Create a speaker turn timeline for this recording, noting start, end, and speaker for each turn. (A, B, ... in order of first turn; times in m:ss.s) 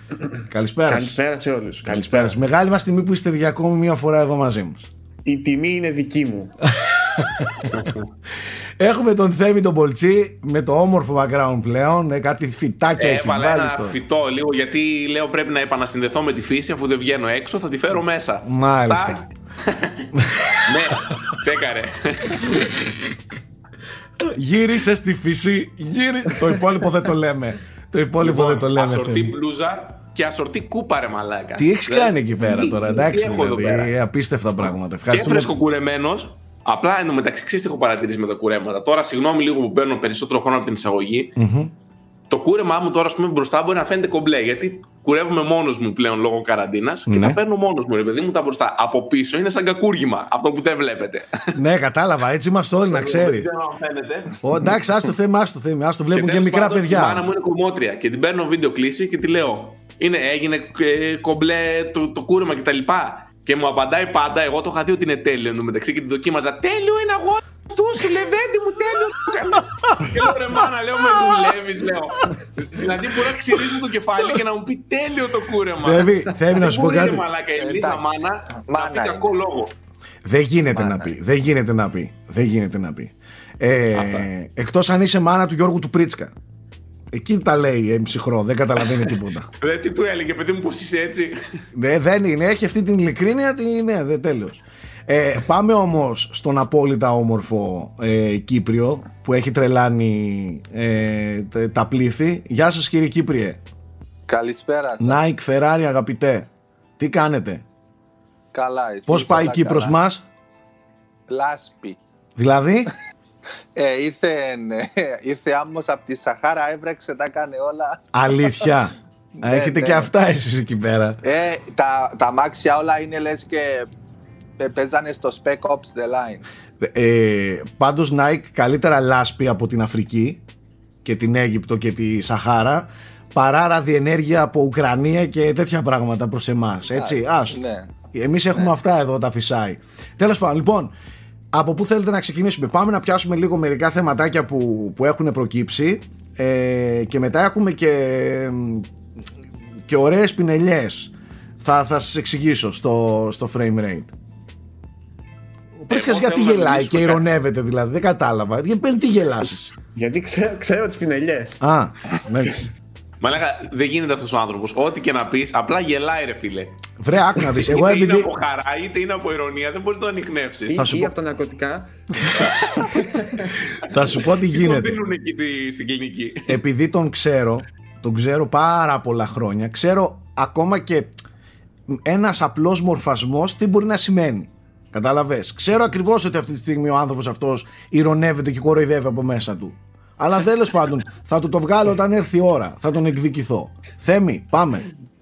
0:00.5-0:01.2 A
0:00.9-0:02.4 B
0:01.9-0:04.9 A
0:05.2-0:06.5 B
0:06.6-0:07.9 A
0:08.8-0:14.0 A
0:13.0-0:22.8 C
0:18.4-0:19.2 A
0:20.1-0:21.4 A
0:24.3-0:29.4 A
0:28.2-0:33.9 C
0:31.6-0:35.5 A
0:35.1-0:41.4 C
0:41.4-0:41.7 A
0:42.3-0:51.6 C
0:47.1-0:47.4 A
0:51.5-0:53.5 A
0:52.9-0:54.4 C
0:54.4-0:57.3 A
0:56.1-1:19.7 C
1:09.9-1:10.1 A
1:15.8-1:17.2 A
1:17.6-1:19.3 D
1:20.2-1:26.3 A
1:20.7-1:21.1 D
1:23.9-1:24.3 C
1:27.1-1:29.5 A
1:29.6-1:31.4 C
1:31.7-1:43.6 A
1:44.3-1:45.3 D
1:45.0-1:47.6 A
1:48.5-1:49.9 D
1:49.1-1:50.2 A
1:51.3-1:52.0 D
1:52.4-1:52.9 A
1:53.8-1:58.7 D
1:58.1-2:01.2 A
1:59.3-2:00.1 D
2:01.2-2:03.9 D
2:04.6-2:06.4 D
2:06.8-2:10.4 A
2:11.0-2:17.6 A
2:16.9-2:17.9 D
2:18.1-2:20.9 A
2:21.5-2:28.9 A
2:29.9-2:34.1 A
2:35.8-2:39.7 A
2:35.9-2:37.2 C
2:39.9-2:41.6 B
2:41.6-2:42.7 A
2:43.2-2:46.9 C
2:47.0-2:48.3 A
2:47.5-2:50.8 C
2:50.7-2:51.9 B
2:50.8-2:51.1 A
2:52.2-2:52.9 A
2:52.4-2:53.2 C
2:52.9-2:53.5 B
2:53.8-2:55.0 A
2:53.9-2:56.6 C
2:56.5-3:01.1 A
3:01.9-3:14.9 A